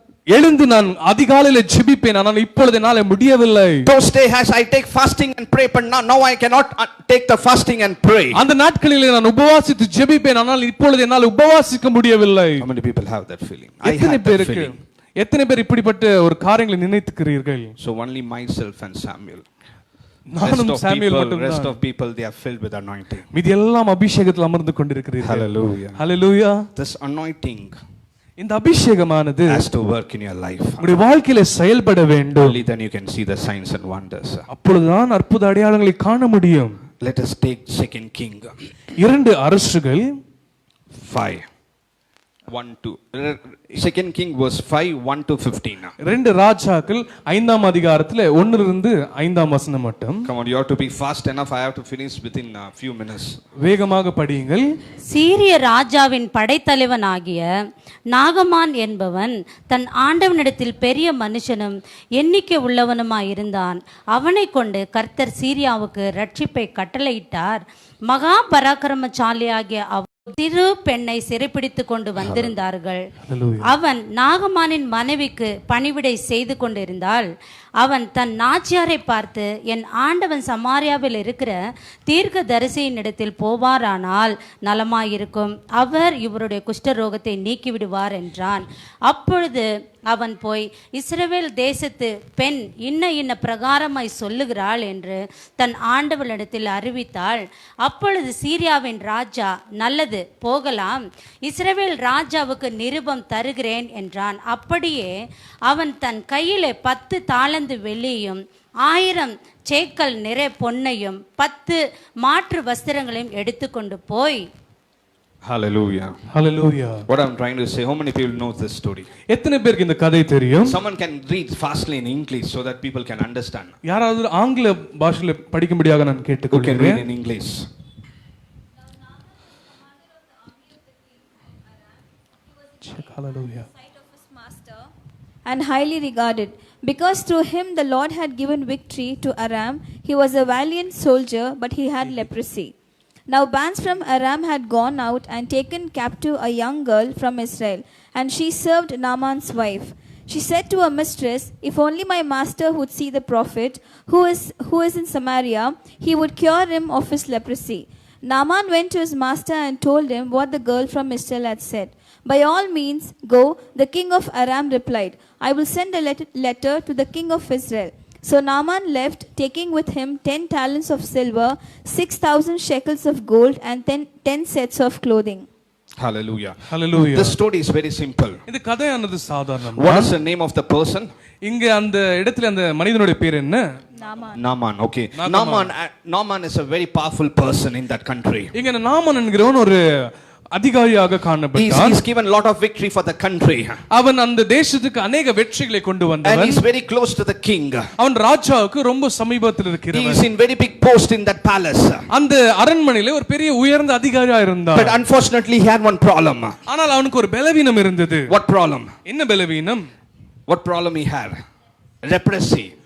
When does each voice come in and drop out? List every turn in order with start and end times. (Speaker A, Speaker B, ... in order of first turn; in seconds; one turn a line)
Speaker A: 0.3-3.9
Speaker B: 3.8-8.4
Speaker A: 8.3-12.6
Speaker B: 12.6-14.8
Speaker A: 13.8-17.7
Speaker B: 17.8-19.4
Speaker A: 20.3-21.8
Speaker B: 20.4-23.2
Speaker A: 23.3-26.6
Speaker B: 25.2-26.0
Speaker B: 26.7-27.7
Speaker A: 28.4-29.7
Speaker B: 29.5-30.8
Speaker A: 30.8-32.5
Speaker B: 32.4-34.5
Speaker A: 34.5-36.8
Speaker B: 37.0-38.5
Speaker A: 39.0-40.1
Speaker B: 41.0-41.4
Speaker B: 42.5-45.9
Speaker A: 46.0-50.3
Speaker B: 50.2-53.4
Speaker A: 53.6-54.7
Speaker C: 55.1-57.5
Speaker C: 58.1-73.0
Speaker B: 72.2-72.5
Speaker A: 73.2-73.7
Speaker C: 73.6-77.2
Speaker C: 77.8-81.5
Speaker C: 82.1-105.1
Speaker C: 105.7-114.4
Speaker B: 115.4-116.1
Speaker A: 116.3-117.0
Speaker B: 117.1-119.1
Speaker A: 119.3-120.8
Speaker B: 120.6-123.7
Speaker A: 123.8-127.0
Speaker B: 126.5-127.7
Speaker D: 130.2-131.2
Speaker A: 132.8-133.7
Speaker D: 133.8-134.9
Speaker D: 135.4-142.7
Speaker D: 143.3-175.5
Speaker B: 176.0-176.6
Speaker A: 176.7-177.3
Speaker B: 177.1-178.4
Speaker A: 178.5-180.1
Speaker B: 179.8-181.1
Speaker A: 181.4-183.6
Speaker D: 184.0-184.4
Speaker B: 184.3-188.5
Speaker A: 185.2-185.7
Speaker A: 188.5-192.0
Speaker B: 191.5-193.8
Speaker A: 193.9-196.6
Speaker B: 196.2-197.9
Speaker A: 198.0-200.2
Speaker B: 199.9-202.0
Speaker A: 202.1-205.0
Speaker B: 204.7-206.5
Speaker A: 206.7-208.3
Speaker B: 208.3-208.9
Speaker A: 209.1-209.9
Speaker B: 210.5-211.3
Speaker B: 212.0-212.7